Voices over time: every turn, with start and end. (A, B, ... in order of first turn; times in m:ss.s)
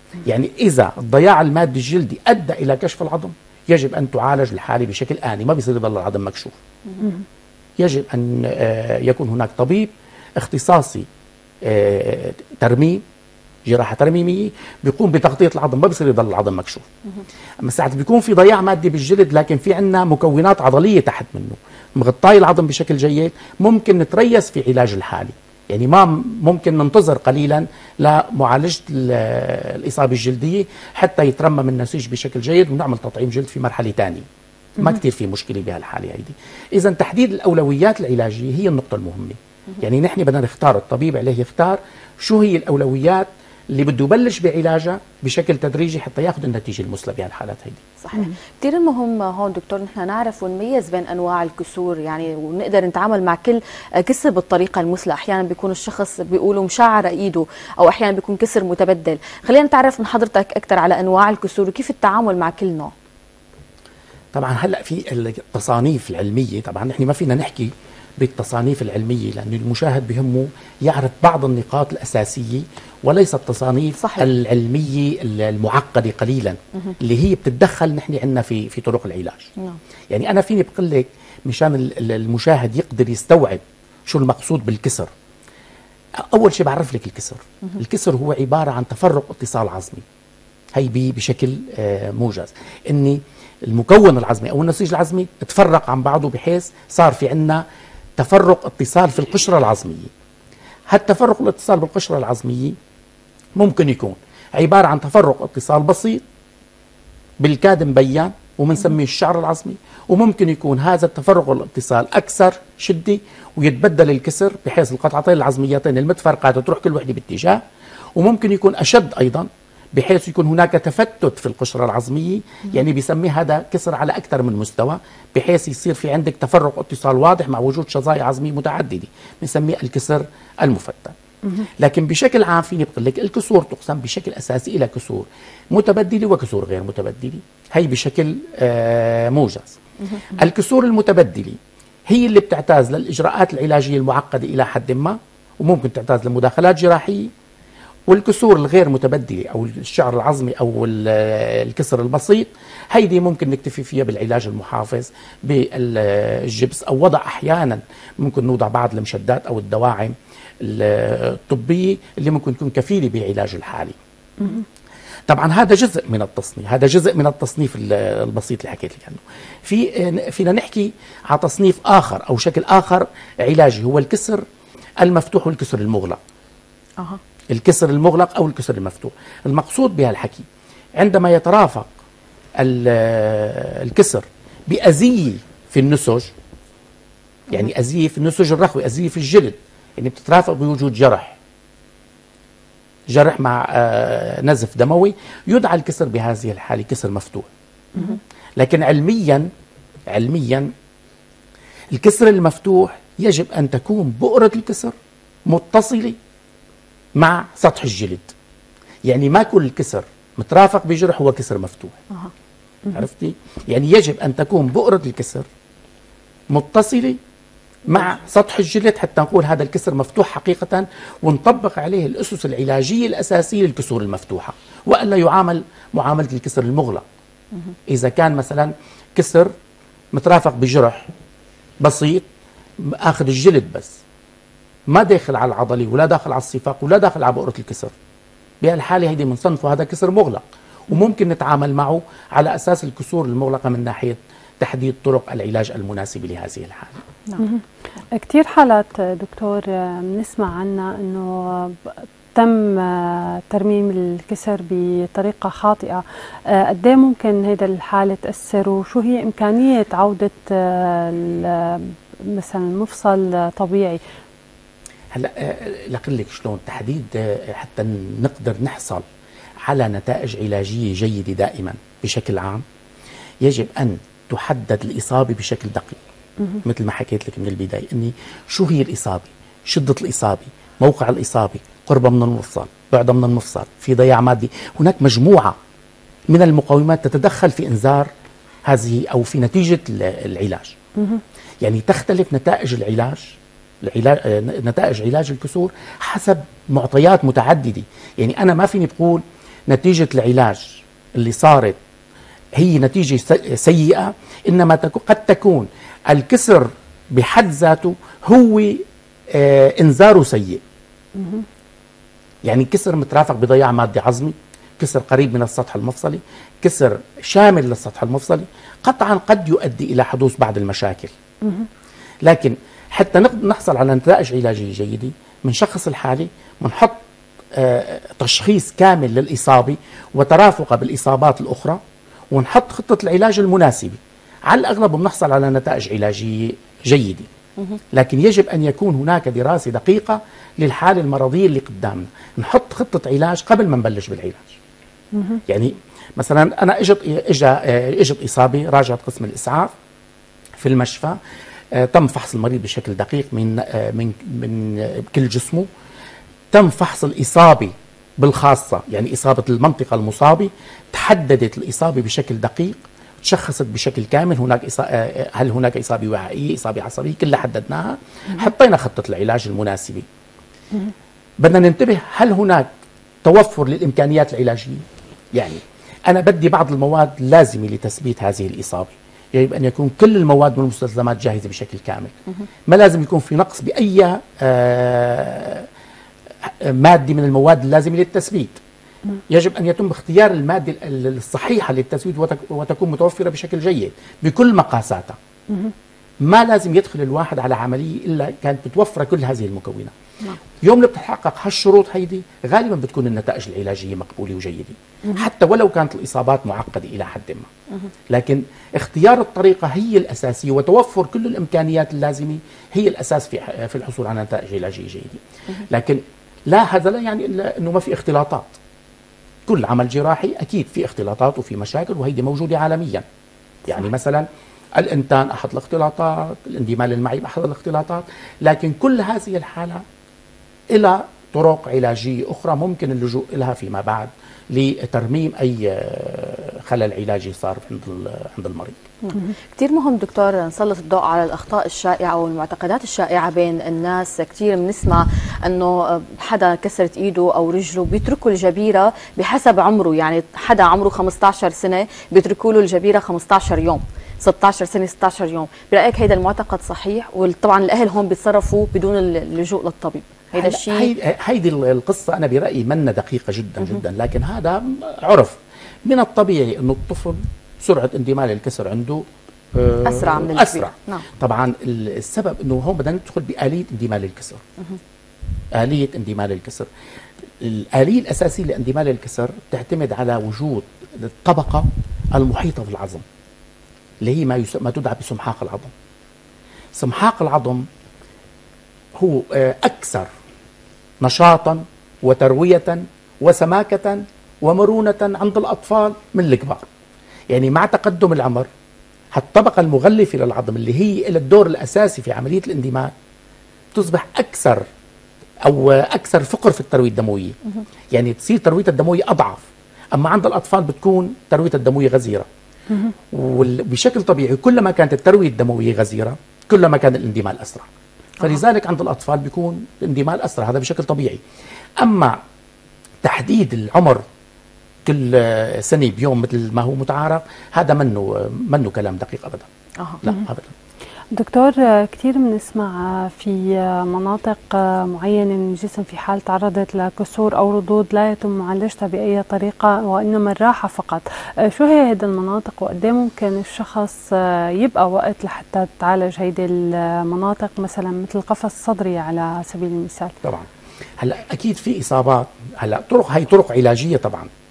0:00.2-0:06.5 A
0:07.8-0:11.1 A
0:11.6-0:13.0 A
0:13.7-0:16.8 A
0:17.6-0:34.2 A
0:34.8-0:47.8 A
0:48.0-1:02.9 B
1:04.3-1:19.5 A
1:14.0-1:14.3 B
1:20.1-1:25.1 A
1:26.2-1:30.0 A
1:30.8-1:37.6 A
1:38.2-1:40.1 A
1:40.9-1:42.8 A
1:43.6-1:46.2 A
1:47.4-1:57.6 A
1:58.2-2:11.2 A
2:11.8-2:19.8 A
2:20.3-2:27.3 A
2:28.1-2:44.0 A
2:44.4-2:44.6 C
2:45.3-2:54.4 A
2:55.0-2:56.2 A
2:57.5-3:00.5 A
3:01.0-3:01.9 A
3:02.6-3:06.3 A
3:07.5-3:11.4 A
3:13.1-3:17.5 A
3:18.6-3:19.5 A
3:20.1-3:20.7 A
3:21.9-3:24.9 A
3:25.5-3:26.2 A
3:27.2-3:28.3 A
3:29.1-3:32.0 A
3:32.9-3:35.5 A
3:36.5-3:37.2 A
3:37.9-3:47.0 A
3:47.9-3:49.5 A
3:50.1-3:51.1 A
3:51.8-3:52.2 A
3:52.8-3:54.0 A
3:54.9-3:57.9 A
3:58.6-4:07.0 A
4:08.1-4:24.0 C
4:25.1-4:29.0 A
4:29.6-4:32.6 A
4:33.4-4:36.0 A
4:36.6-4:45.6 A
4:46.3-4:48.1 A
4:48.7-4:50.8 A
4:51.6-5:01.8 A
5:02.6-5:10.6 A
5:11.2-5:11.4 C
5:12.4-5:21.1 A
5:21.4-5:21.7 C
5:22.2-5:27.0 A
5:27.5-5:37.3 A
5:37.9-5:44.6 A
5:45.1-5:45.4 C
5:45.5-5:49.7 A
5:50.6-5:51.2 A
5:51.7-5:55.7 A
5:56.5-6:10.0 A
6:11.4-6:12.7 A
6:13.2-6:14.8 A
6:15.3-6:22.1 A
6:22.7-6:25.7 A
6:26.4-6:28.6 A
6:29.3-6:35.2 A
6:36.2-6:39.9 A
6:40.6-6:47.5 A
6:48.1-6:58.5 A
6:59.5-7:03.0 A
7:03.7-7:09.8 A
7:10.7-7:18.8 A
7:19.0-7:40.9 B
7:40.4-7:54.4 A
7:49.8-7:51.0 B
7:55.5-7:56.7 A
7:57.4-8:03.0 A
8:04.0-8:05.7 A
8:06.8-8:07.6 A
8:09.0-8:10.1 A
8:11.0-8:16.7 A
8:17.3-8:18.5 A
8:19.1-8:22.9 A
8:23.7-8:24.6 A
8:25.4-8:27.4 A
8:27.9-8:29.4 A
8:29.9-8:32.3 A
8:33.1-8:37.7 A
8:38.2-8:41.2 A
8:41.8-8:42.2 A
8:43.0-8:44.0 A
8:44.8-8:49.5 A
8:50.0-8:50.5 A
8:51.1-9:10.2 C
9:11.0-9:14.3 A